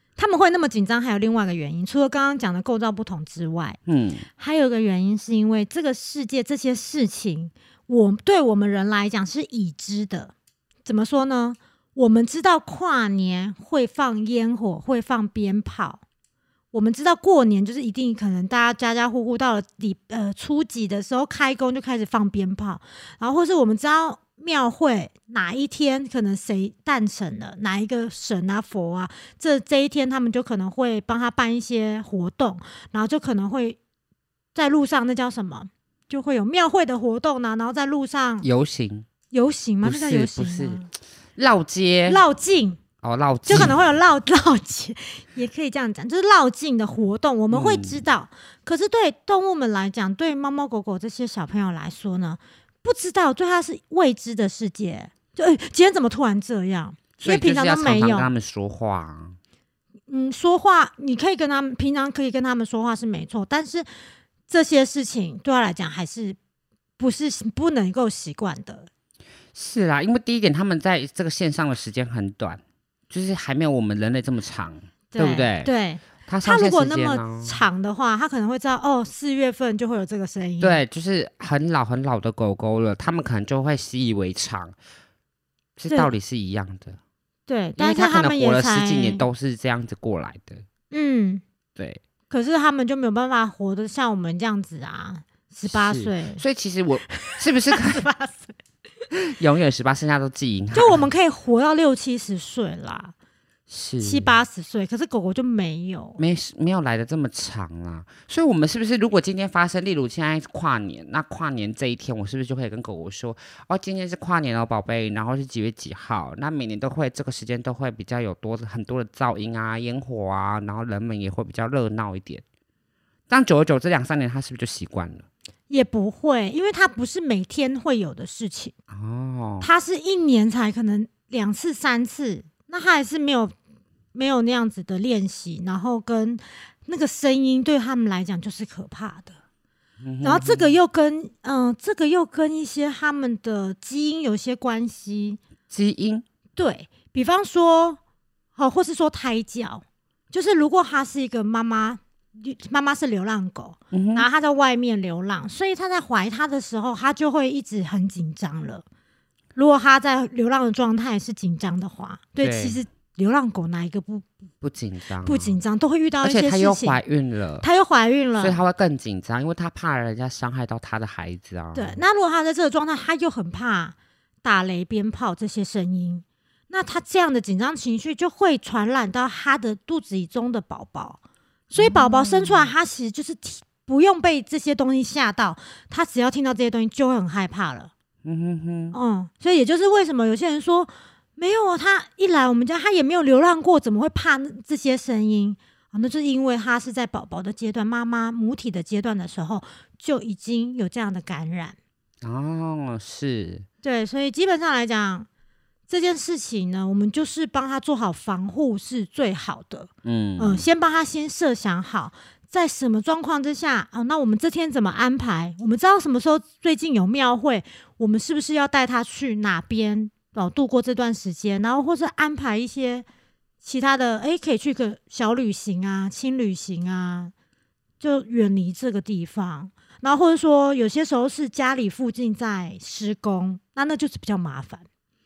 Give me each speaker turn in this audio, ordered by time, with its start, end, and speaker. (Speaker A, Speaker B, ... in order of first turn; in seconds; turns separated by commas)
Speaker A: 0.2-3.8, Speaker B: 3.9-4.3, Speaker A: 4.4-10.3, Speaker A: 10.8-16.0, Speaker A: 16.7-33.8, Speaker A: 34.5-38.5, Speaker B: 38.4-39.1, Speaker A: 39.3-40.9, Speaker B: 39.8-40.8, Speaker B: 41.4-42.2, Speaker A: 42.0-42.8, Speaker B: 43.0-43.8, Speaker A: 43.5-58.3, Speaker B: 47.5-48.0, Speaker B: 57.2-59.4, Speaker A: 60.1-63.9, Speaker A: 64.5-66.4, Speaker A: 67.0-68.9, Speaker B: 69.5-75.7, Speaker A: 75.1-80.8, Speaker B: 76.3-77.6, Speaker B: 80.6-84.7, Speaker B: 85.8-87.0, Speaker A: 87.5-89.2, Speaker B: 87.8-90.6, Speaker A: 90.9-91.4, Speaker A: 92.3-96.4, Speaker B: 95.7-98.0, Speaker A: 97.1-98.5, Speaker B: 99.1-101.0, Speaker A: 100.7-103.1, Speaker B: 103.7-104.3, Speaker A: 104.0-106.2, Speaker B: 106.2-122.4, Speaker B: 123.3-125.3, Speaker A: 125.7-128.7, Speaker B: 128.9-129.7, Speaker A: 129.6-133.6, Speaker A: 134.1-139.4, Speaker B: 140.0-140.8, Speaker A: 140.2-145.4, Speaker B: 145.7-146.2, Speaker A: 146.6-148.0, Speaker A: 148.6-158.8, Speaker B: 153.9-154.3, Speaker A: 159.6-164.3, Speaker B: 162.4-162.8, Speaker B: 164.6-165.6, Speaker A: 165.2-167.0, Speaker B: 166.2-167.7, Speaker A: 167.6-168.6, Speaker B: 168.4-172.0, Speaker A: 171.7-181.2, Speaker A: 181.7-187.9, Speaker B: 181.8-182.7, Speaker B: 188.2-188.9, Speaker A: 188.9-201.8, Speaker B: 202.2-203.6, Speaker A: 203.8-205.3, Speaker A: 205.9-223.1, Speaker B: 210.0-210.7, Speaker A: 223.6-227.3, Speaker A: 228.0-234.8